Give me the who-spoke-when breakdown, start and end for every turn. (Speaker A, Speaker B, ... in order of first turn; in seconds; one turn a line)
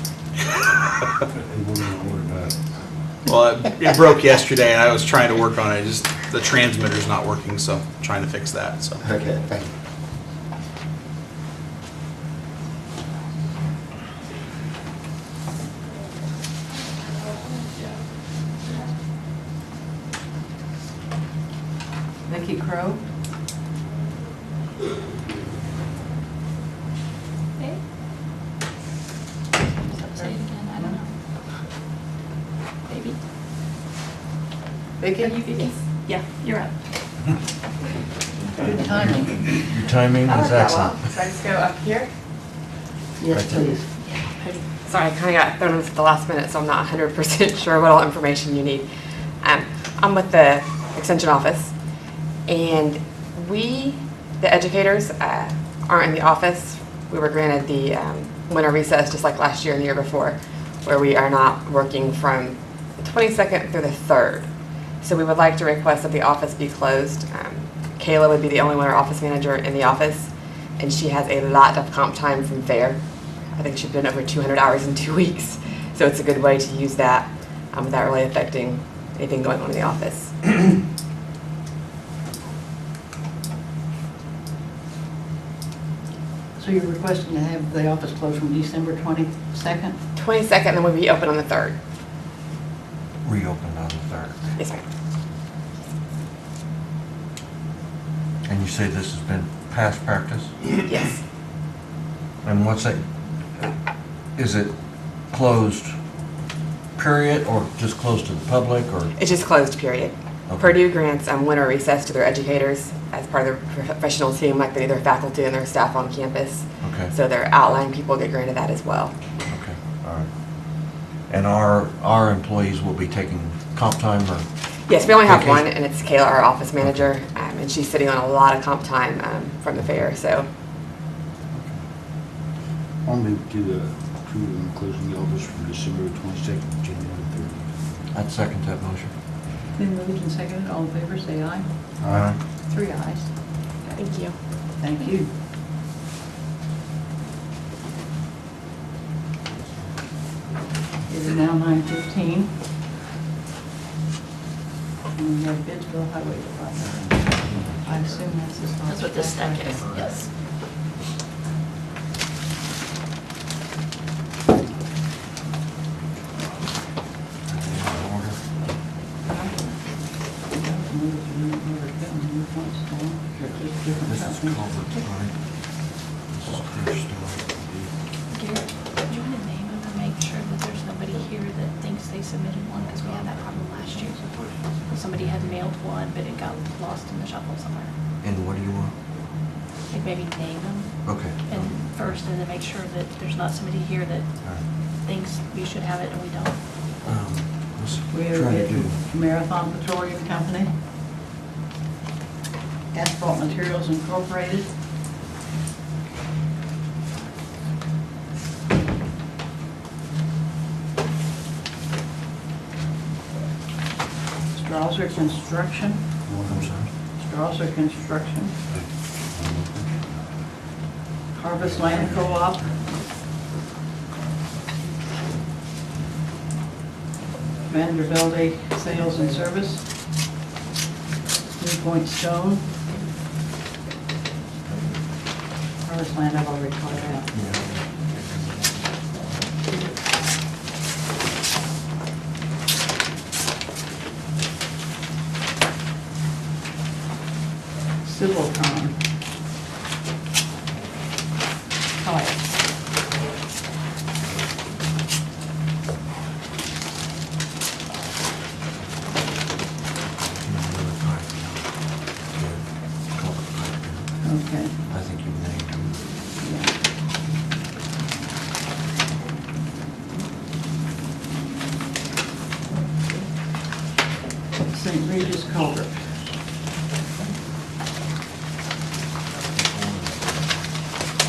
Speaker A: 0.4-1.3
Speaker B: 1.4-2.6
Speaker A: 3.3-9.1
Speaker B: 9.2-9.5
Speaker C: 22.3-23.1
Speaker C: 29.8-31.0
Speaker D: 29.9-31.1
Speaker D: 32.9-33.2
Speaker C: 35.0-35.4
Speaker D: 35.2-36.8
Speaker C: 38.6-39.6
Speaker E: 39.4-41.1
Speaker F: 41.2-42.1
Speaker C: 43.2-43.9
Speaker E: 43.3-43.8
Speaker D: 44.0-44.6
Speaker F: 44.9-48.9
Speaker F: 49.4-51.7
Speaker F: 52.5-64.5
Speaker F: 65.0-73.0
Speaker F: 73.6-80.5
Speaker C: 86.5-90.0
Speaker F: 90.2-91.8
Speaker E: 93.2-94.5
Speaker F: 94.6-94.8
Speaker E: 98.5-100.5
Speaker F: 100.8-101.2
Speaker E: 102.4-103.0
Speaker E: 104.4-104.8
Speaker E: 105.3-105.9
Speaker E: 107.0-109.1
Speaker F: 109.2-119.1
Speaker E: 110.5-110.8
Speaker E: 116.8-117.1
Speaker E: 119.5-120.3
Speaker E: 121.3-124.5
Speaker F: 124.9-130.5
Speaker E: 125.2-125.7
Speaker E: 126.8-127.1
Speaker B: 133.1-137.7
Speaker E: 138.1-139.1
Speaker C: 139.7-141.9
Speaker B: 142.0-142.3
Speaker E: 142.0-142.4
Speaker C: 142.7-143.9
Speaker F: 144.0-144.4
Speaker C: 144.8-145.4
Speaker C: 151.1-152.6
Speaker C: 155.1-159.8
Speaker E: 156.9-158.0
Speaker D: 158.9-160.3
Speaker E: 167.5-168.4
Speaker C: 169.3-174.6
Speaker E: 174.0-177.9
Speaker D: 178.3-187.9
Speaker E: 185.2-185.5
Speaker E: 188.2-189.0
Speaker D: 189.9-196.6
Speaker E: 191.1-191.8
Speaker E: 194.4-194.7
Speaker E: 197.0-199.0
Speaker C: 198.1-200.7
Speaker C: 202.9-204.8
Speaker C: 214.5-216.2
Speaker B: 216.3-216.8
Speaker E: 216.4-216.9
Speaker C: 217.2-218.6
Speaker B: 219.3-219.9
Speaker C: 221.3-222.7
Speaker E: 221.6-222.8
Speaker C: 227.7-229.9
Speaker C: 231.6-232.7
Speaker E: 234.7-235.0
Speaker C: 235.8-237.3
Speaker E: 237.3-239.2
Speaker C: 248.0-249.0
Speaker C: 252.0-252.6
Speaker E: 260.3-266.2
Speaker C: 264.2-264.8
Speaker C: 266.4-266.8
Speaker C: 274.6-276.2
Speaker E: 279.3-280.8